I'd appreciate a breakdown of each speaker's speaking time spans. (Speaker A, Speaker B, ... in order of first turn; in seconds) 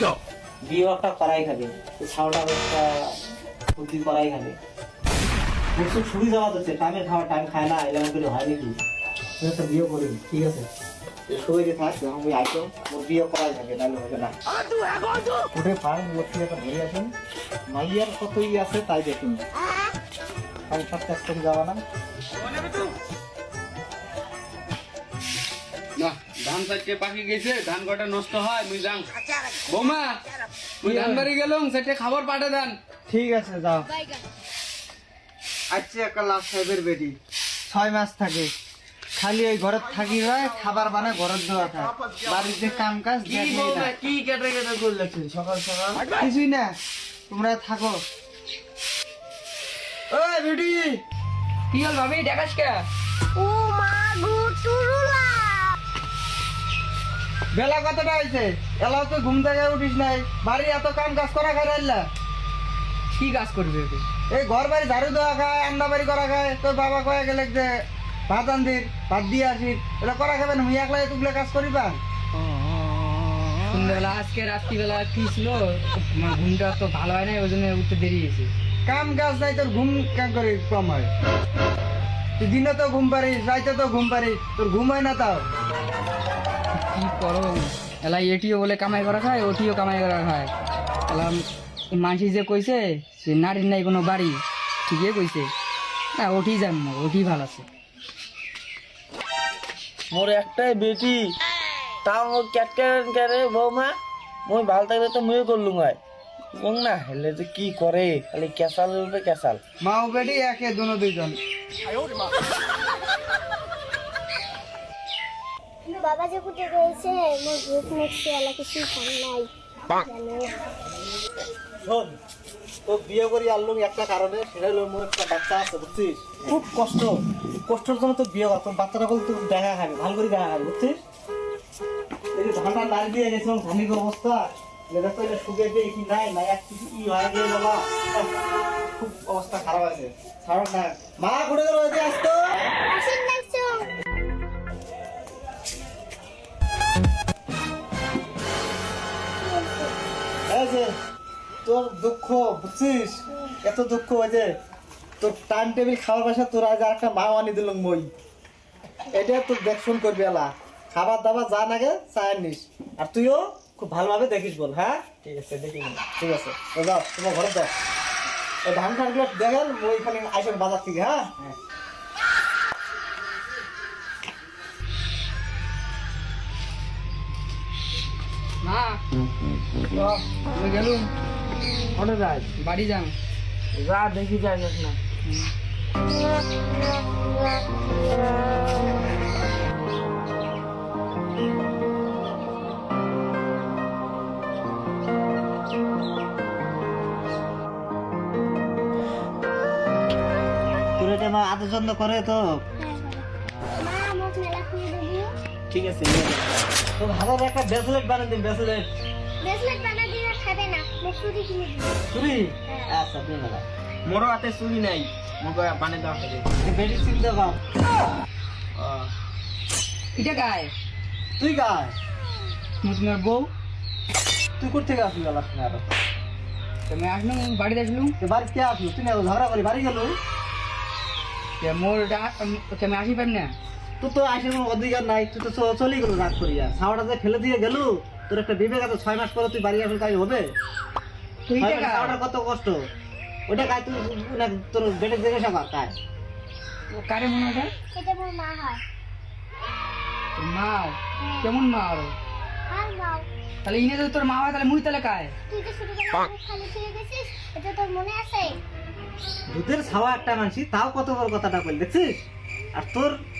Speaker A: 0.6-3.2, 3.7-4.6, 5.8-8.8, 9.4-10.7, 11.3-14.3, 15.5-17.1, 17.7-19.4, 20.7-21.8, 121.8-122.2, 122.8-127.1, 127.7-131.0, 132.3-138.3, 139.0-142.5, 150.5-150.9, 151.6-154.5, 155.2-158.1, 159.1-165.2, 166.0-167.7, 168.7-171.5, 201.0-202.4, 205.7-208.9, 212.1-213.6, 216.6-217.6, 221.4-221.9, 224.6-225.8, 228.2-230.1, 234.0-240.5, 241.6-242.8, 243.5-245.9, 259.5-263.2
Speaker B: 26.0-29.1, 29.7-30.1, 30.8-32.8
Speaker C: 30.8-31.9, 51.7-52.9, 63.1-64.0, 73.7-78.5, 86.8-90.5, 91.1-95.5, 96.2-97.7, 178.6-179.0, 180.2-181.1, 182.6-183.1, 185.2-185.5, 220.2-220.7, 222.8-223.5, 226.9-228.2, 231.6-233.5, 241.5-242.2, 246.9-247.7, 250.3-252.1, 253.6-255.3
Speaker D: 33.1-33.9, 35.7-37.2, 37.7-38.5, 39.2-43.9, 46.2-46.7, 47.3-48.0, 50.1-51.0, 57.5-62.0, 64.3-67.7, 68.3-72.0, 78.9-81.1, 82.4-85.5, 109.8-111.4
Speaker E: 43.2-46.2, 100.1-101.3, 102.0-106.0, 106.5-109.6, 165.2-166.0, 181.9-182.5, 183.7-185.0, 214.1-216.4, 218.8-219.1
Speaker F: 53.3-55.7, 115.8-120.7, 142.9-143.9, 149.4-149.9, 202.8-203.2, 203.8-205.3, 209.4-212.0, 247.9-248.8, 251.2-251.5, 252.7-253.3, 255.5-258.6